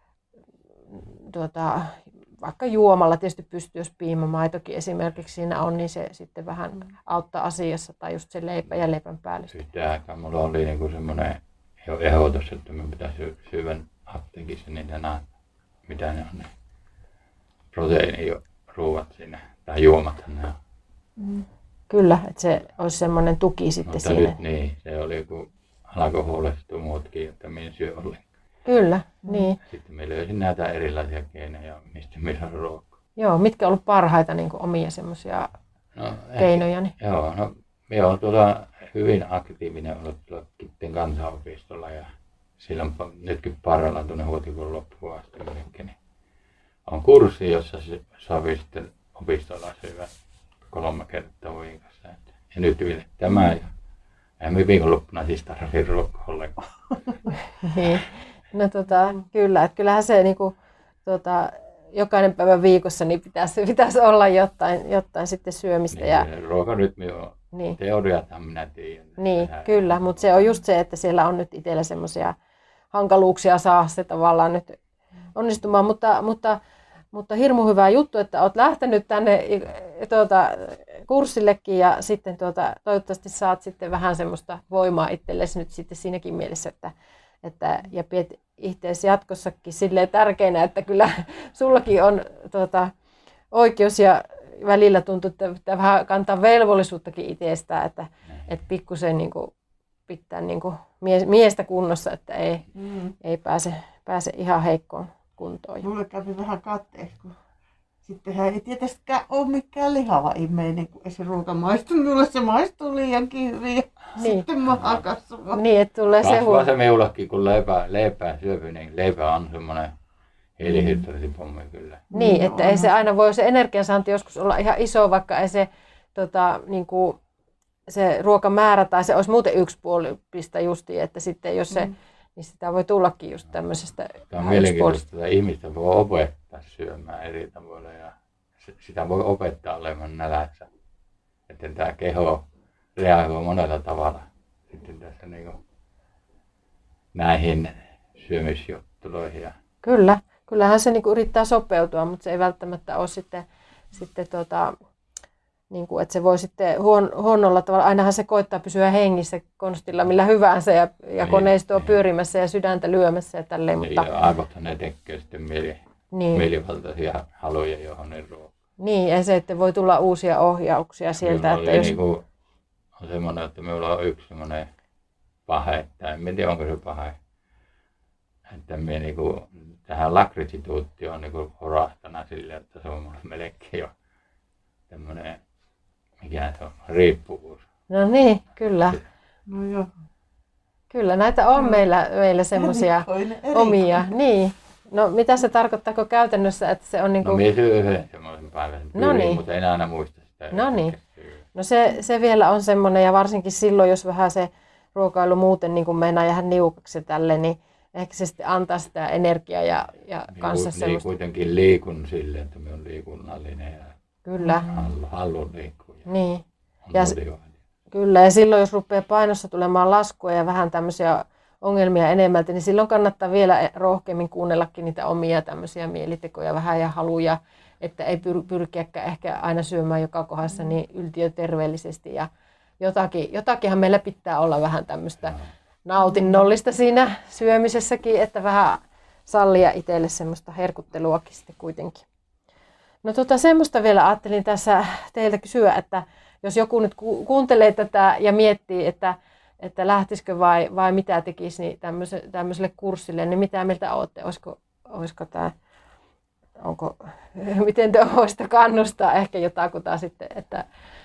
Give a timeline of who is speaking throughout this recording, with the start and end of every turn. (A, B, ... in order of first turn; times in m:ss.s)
0:00.9-0:09.6 A
0:09.5-0:15.2 B
0:15.9-0:16.5 B
0:17.7-0:20.5 B
0:21.2-0:21.4 C
0:21.9-0:24.3 A
0:23.8-0:28.2 B
0:28.6-0:29.6 A
0:29.6-0:32.9 B
0:33.2-0:35.5 A
0:35.9-0:42.1 B
0:36.4-0:36.9 A
0:42.6-0:46.0 B
0:46.9-0:50.1 B
0:50.7-0:53.7 B
0:54.4-0:56.6 B
0:57.6-1:06.2 A
1:05.9-1:10.5 B
1:09.2-1:12.3 A
1:12.9-1:14.8 A
1:15.4-1:16.6 A
1:17.1-1:32.9 A
1:33.5-1:39.5 A
1:40.1-1:42.6 A
1:42.8-1:43.1 C
1:43.2-1:45.8 A
1:45.8-1:47.4 C
1:48.0-1:55.6 C
1:54.2-1:54.4 A
1:54.7-1:55.0 B
1:55.5-1:56.7 A
1:56.2-1:59.9 B
2:00.6-2:02.0 B
2:00.6-2:01.0 C
2:02.1-2:03.0 C
2:02.1-2:07.2 A
2:07.9-2:15.0 A
2:14.3-2:20.7 B
2:21.5-2:22.4 B
2:23.0-2:25.6 B
2:27.1-2:29.5 B
2:29.8-2:34.7 A
2:35.7-2:44.1 A
2:41.2-2:42.0 B
2:43.8-2:45.8 B
2:46.1-2:46.4 A
2:46.3-2:48.5 B
2:48.8-2:52.0 A
2:51.2-2:52.2 B
2:53.0-2:54.7 B
2:55.5-2:57.2 B
2:58.5-3:03.9 B
3:04.9-3:05.4 B
3:06.2-3:07.6 B
3:07.9-3:09.0 A
3:09.5-3:09.9 C
3:10.9-3:17.4 A
3:11.5-3:11.8 C
3:12.6-3:14.1 C
3:17.2-3:21.4 B
3:19.0-3:19.4 A
3:20.5-3:20.9 A
3:21.5-3:31.0 A
3:30.3-3:33.9 B
3:34.2-3:34.6 A
3:34.4-3:34.8 C
3:34.7-3:36.1 B
3:36.1-3:37.2 A
3:36.8-3:37.5 B
3:37.9-3:52.3 A
3:52.8-4:02.0 A
3:56.0-3:56.4 C
4:03.0-4:15.5 A
4:16.6-4:20.6 A